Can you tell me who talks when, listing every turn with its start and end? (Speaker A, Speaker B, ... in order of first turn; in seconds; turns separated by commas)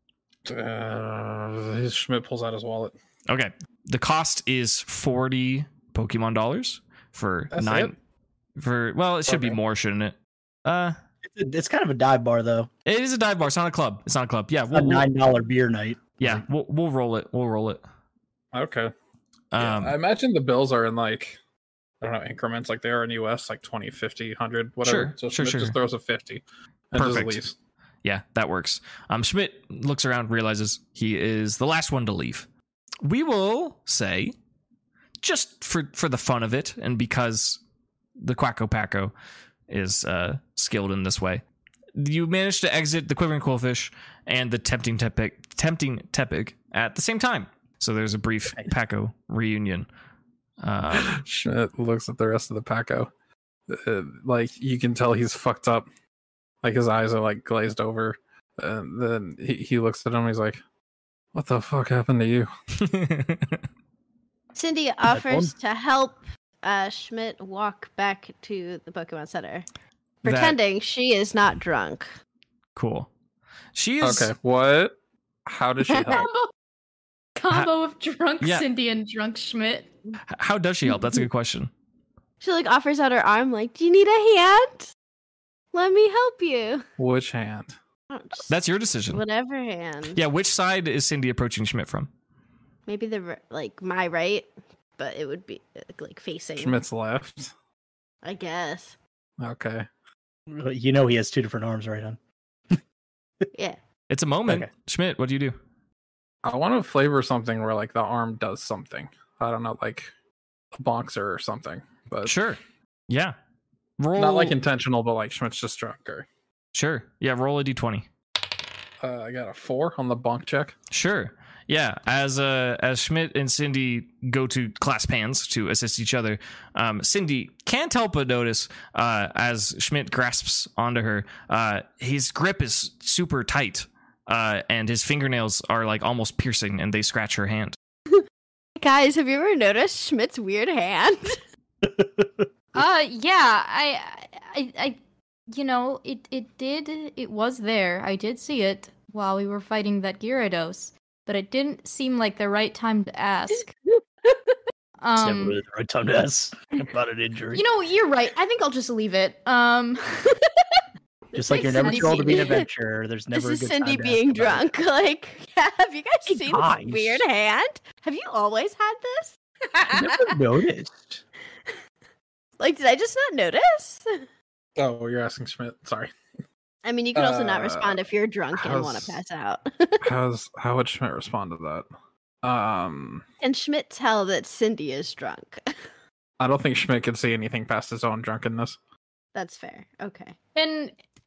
Speaker A: 0.5-2.9, Speaker B: 3.3-7.9, Speaker A: 7.5-7.9, Speaker B: 8.6-11.0, Speaker A: 9.3-9.6, Speaker C: 11.2-12.7, Speaker B: 12.9-15.1, Speaker C: 14.7-16.4, Speaker B: 16.2-17.8, Speaker A: 18.5-18.9, Speaker B: 19.5-20.0, Speaker A: 19.6-21.4, Speaker A: 22.0-27.6, Speaker B: 24.8-25.8, Speaker B: 26.9-27.4, Speaker B: 28.0-32.5, Speaker B: 33.0-34.4, Speaker B: 35.2-37.6, Speaker B: 38.2-39.1, Speaker B: 39.7-41.4, Speaker B: 42.0-49.9, Speaker B: 50.6-51.2, Speaker A: 51.0-53.1, Speaker A: 53.7-55.9, Speaker A: 56.6-60.6, Speaker A: 61.3-62.5, Speaker B: 62.8-63.6, Speaker D: 64.5-69.7, Speaker C: 65.1-65.5, Speaker B: 70.2-70.6, Speaker D: 70.2-72.1, Speaker B: 72.8-73.1, Speaker B: 73.8-74.3, Speaker A: 74.0-75.0, Speaker A: 75.5-76.3, Speaker D: 75.9-76.2, Speaker E: 76.1-76.5, Speaker E: 77.4-79.9, Speaker B: 78.4-78.7, Speaker B: 80.3-81.7, Speaker D: 82.4-84.9, Speaker D: 85.7-86.8, Speaker A: 87.0-87.8, Speaker D: 88.1-88.5, Speaker B: 88.5-89.2, Speaker D: 89.1-90.2, Speaker B: 90.1-92.1, Speaker D: 92.9-96.8, Speaker A: 96.6-97.5, Speaker D: 98.2-99.0, Speaker A: 99.4-99.9, Speaker C: 100.5-102.2, Speaker B: 104.1-105.6, Speaker A: 106.4-110.1, Speaker A: 110.8-112.3, Speaker B: 112.2-113.3, Speaker B: 114.0-114.6, Speaker A: 114.2-116.3, Speaker B: 116.7-118.1, Speaker A: 119.0-120.7, Speaker B: 120.9-137.8, Speaker D: 138.8-141.4, Speaker C: 141.8-142.5, Speaker E: 142.8-145.0, Speaker E: 145.5-153.7, Speaker D: 153.9-154.6, Speaker E: 155.0-155.6, Speaker C: 155.2-157.6, Speaker E: 157.5-160.4, Speaker D: 161.3-162.7, Speaker C: 161.3-164.7, Speaker E: 161.5-162.6, Speaker D: 163.3-170.3, Speaker C: 166.3-167.2, Speaker C: 169.9-171.2, Speaker D: 172.6-174.2, Speaker A: 174.8-176.1, Speaker D: 176.8-180.0, Speaker A: 177.2-178.0, Speaker A: 178.6-179.2, Speaker A: 180.0-181.9, Speaker A: 182.4-183.2, Speaker D: 183.4-185.8, Speaker A: 186.4-188.8, Speaker D: 189.3-190.4, Speaker E: 190.6-190.9